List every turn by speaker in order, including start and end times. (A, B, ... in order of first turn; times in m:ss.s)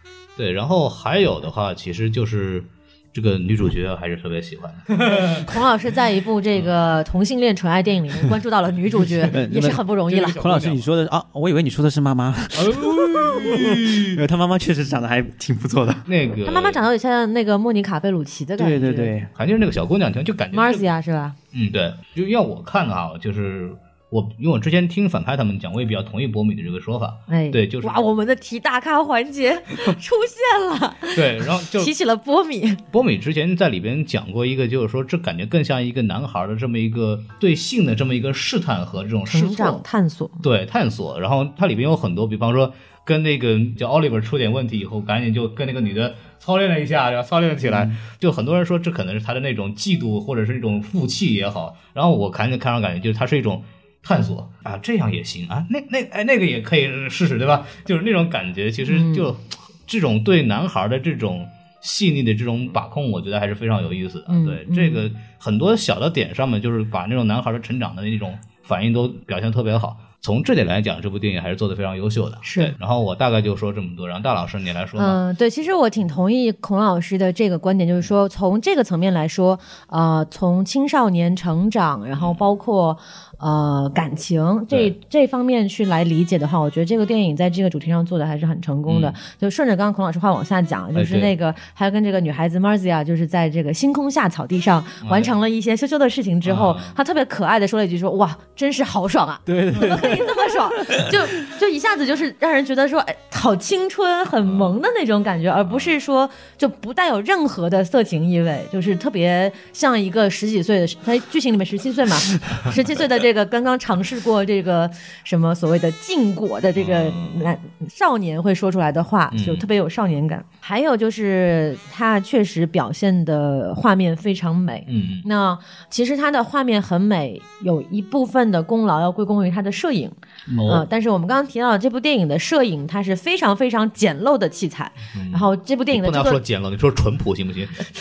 0:00.4-0:05.5 A
0:05.0-0:10.4 B
0:09.3-0:16.0 C
0:10.1-0:10.8 A
0:12.5-0:14.2 A
0:16.0-0:16.8 A
0:16.4-0:19.1 B
0:18.6-0:19.3 C
0:19.3-0:20.8 A
0:20.5-0:21.4 B
0:21.5-0:28.1 A
0:27.3-0:32.8 B
0:31.1-0:31.9 A
0:32.9-0:39.8 A
0:39.3-0:40.4 B
0:40.4-1:15.2 A
0:47.7-0:48.0 C
0:58.8-0:59.3 B
1:04.3-1:05.0 B
1:12.4-1:12.7 B
1:15.0-2:16.4 B
1:28.9-1:29.2 A
1:30.9-1:31.3 A
1:35.0-1:35.3 A
1:36.4-1:37.0 A
1:39.5-1:41.2 C
1:44.4-1:44.7 A
1:45.7-1:45.9 A
1:56.8-1:57.5 A
1:59.3-1:59.6 A
2:04.9-2:05.2 A
2:10.5-2:10.8 A
2:15.1-2:17.9 A